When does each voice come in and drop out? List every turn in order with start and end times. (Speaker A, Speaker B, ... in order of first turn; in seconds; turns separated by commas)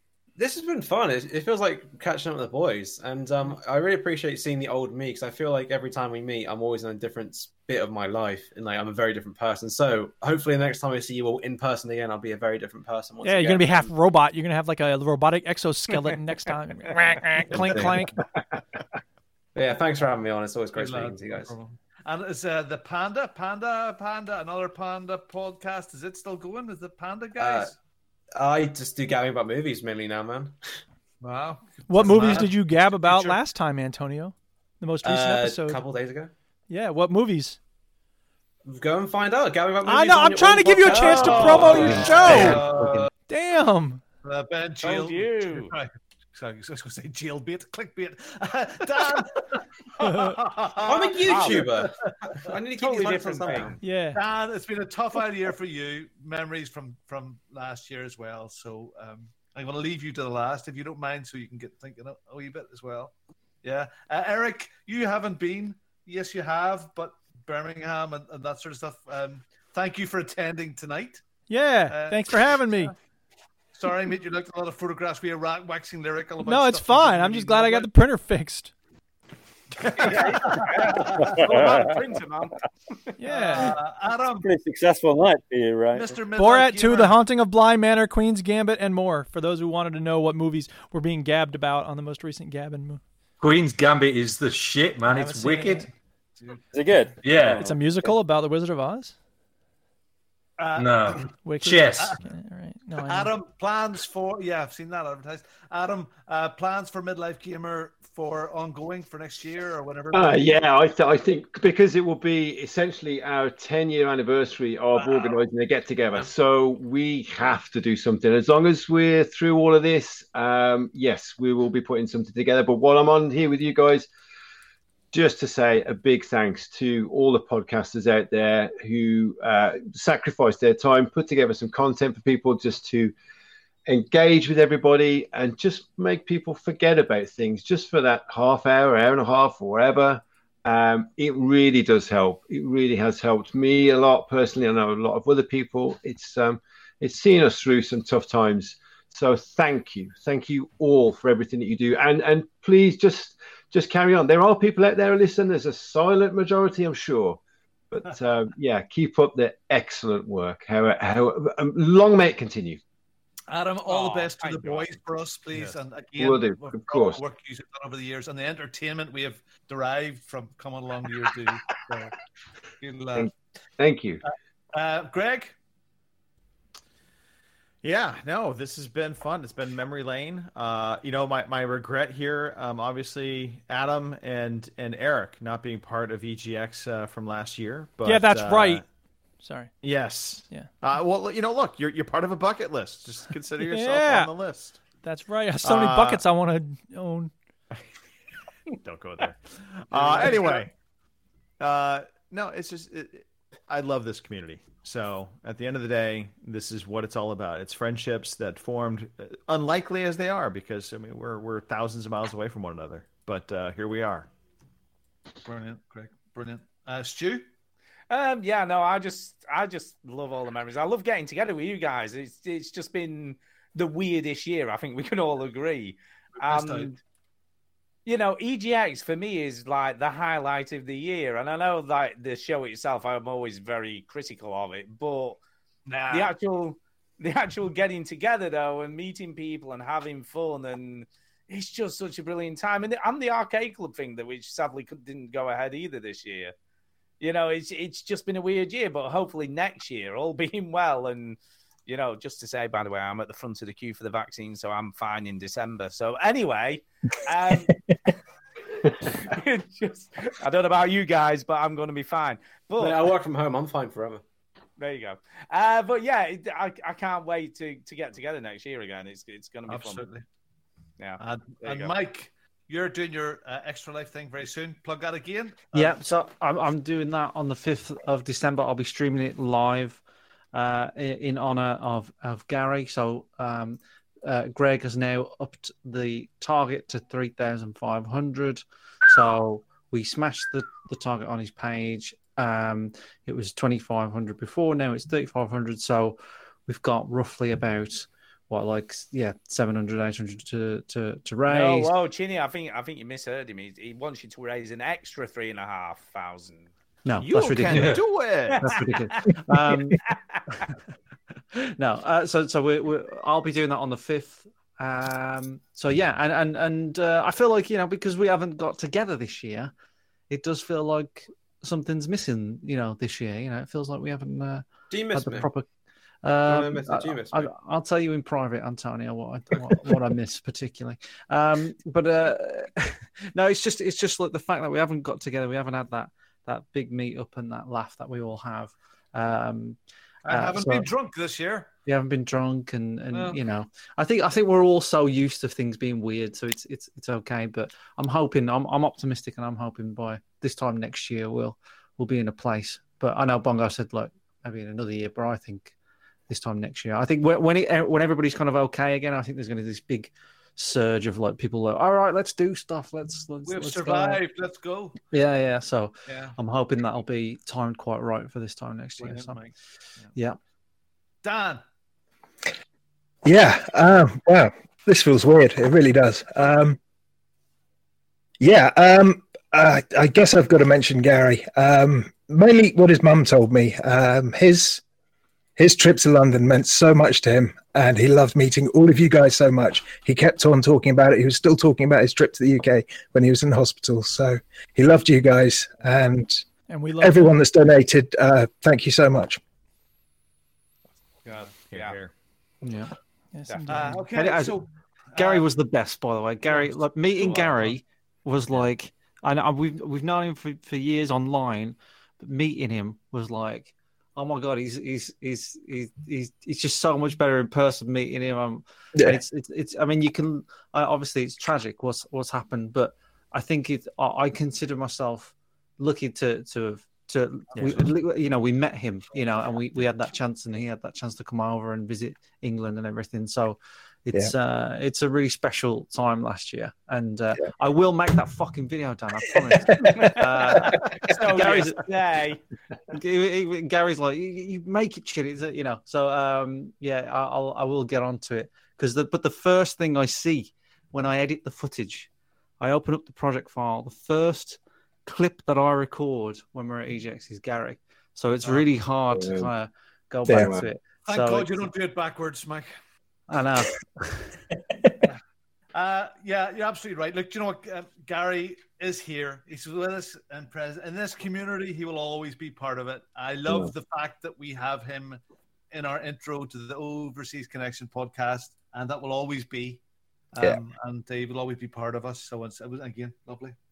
Speaker A: 0.4-13.9, Speaker B: 13.2-18.2, Speaker A: 19.5-21.5, Speaker C: 20.7-27.7, Speaker A: 27.4-27.7, Speaker A: 28.3-30.6, Speaker C: 31.2-33.4, Speaker B: 31.9-35.8, Speaker A: 35.0-36.3, Speaker B: 36.7-37.6, Speaker A: 38.6-42.5, Speaker B: 39.8-44.0, Speaker C: 40.9-43.1, Speaker D: 42.2-43.0, Speaker C: 44.2-51.9, Speaker E: 44.8-45.7, Speaker B: 50.1-50.3, Speaker A: 50.8-53.8, Speaker E: 51.2-51.6, Speaker E: 52.8-53.8, Speaker B: 53.8-54.2, Speaker C: 54.1-71.2, Speaker B: 71.5-72.9, Speaker C: 71.9-72.9, Speaker C: 73.7-77.9, Speaker B: 76.4-78.7, Speaker C: 79.8-81.6, Speaker E: 79.9-83.6, Speaker F: 81.2-82.0, Speaker B: 83.2-83.8, Speaker C: 83.3-84.5, Speaker F: 84.4-86.2, Speaker C: 85.9-87.2, Speaker B: 86.3-93.0, Speaker G: 93.4-95.9, Speaker E: 95.2-95.7, Speaker F: 96.7-98.1, Speaker G: 97.2-97.6, Speaker B: 97.5-99.1, Speaker C: 100.6-101.3, Speaker G: 100.8-102.1, Speaker B: 101.4-103.3, Speaker C: 103.0-110.6, Speaker H: 110.1-124.1, Speaker C: 115.0-115.4, Speaker H: 125.1-133.1, Speaker H: 133.9-157.4, Speaker H: 157.9-162.8, Speaker C: 163.5-172.1, Speaker E: 163.9-164.9, Speaker H: 166.2-167.2, Speaker C: 172.8-173.3, Speaker H: 173.2-174.2, Speaker C: 174.7-175.5, Speaker I: 177.8-188.8, Speaker B: 188.0-188.8, Speaker B: 189.4-189.7, Speaker I: 189.8-194.8, Speaker B: 193.6-194.3, Speaker B: 195.0-197.3, Speaker I: 195.6-196.2, Speaker I: 198.8-200.7, Speaker C: 199.9-200.6, Speaker I: 201.6-214.3, Speaker C: 215.4-217.4, Speaker E: 218.1-227.0, Speaker C: 226.4-226.9, Speaker E: 228.0-235.4, Speaker C: 235.8-236.3, Speaker E: 236.1-246.5, Speaker E: 247.2-257.8, Speaker E: 259.0-263.0, Speaker A: 262.8-264.2, Speaker E: 264.8-270.0, Speaker C: 269.7-270.2, Speaker E: 271.0-271.9, Speaker C: 271.2-276.0, Speaker D: 275.7-280.0, Speaker D: 280.5-301.9, Speaker E: 301.5-306.7, Speaker D: 307.0-308.0, Speaker I: 307.2-308.6, Speaker G: 307.7-308.0, Speaker E: 308.5-309.0, Speaker D: 308.6-310.0, Speaker E: 310.1-310.4, Speaker D: 311.5-319.7, Speaker D: 320.3-325.6, Speaker A: 324.9-325.5, Speaker D: 326.2-340.9, Speaker A: 326.4-327.5, Speaker C: 340.2-341.7, Speaker D: 341.9-355.7, Speaker C: 343.1-343.4, Speaker D: 356.3-364.2, Speaker C: 363.4-365.0, Speaker D: 365.1-369.4, Speaker C: 366.1-366.3, Speaker C: 369.0-369.5, Speaker C: 371.2-371.6, Speaker J: 373.2-376.8, Speaker J: 378.4-384.8, Speaker J: 385.6-396.4, Speaker B: 396.7-397.4, Speaker J: 397.0-399.4, Speaker E: 401.2-402.0, Speaker I: 401.4-402.1, Speaker D: 402.6-402.9, Speaker B: 403.3-404.1, Speaker E: 403.5-403.8, Speaker C: 403.7-405.4, Speaker D: 404.1-404.6, Speaker D: 405.1-441.9, Speaker E: 407.1-407.7, Speaker J: 418.9-419.2, Speaker C: 427.5-427.9, Speaker E: 439.8-442.4, Speaker D: 442.9-452.1, Speaker D: 452.6-461.6, Speaker H: 459.1-459.5, Speaker J: 460.3-460.5, Speaker H: 460.3-460.7, Speaker C: 461.1-462.7, Speaker D: 463.3-464.3, Speaker C: 465.7-475.2, Speaker C: 475.7-479.8, Speaker C: 480.3-483.5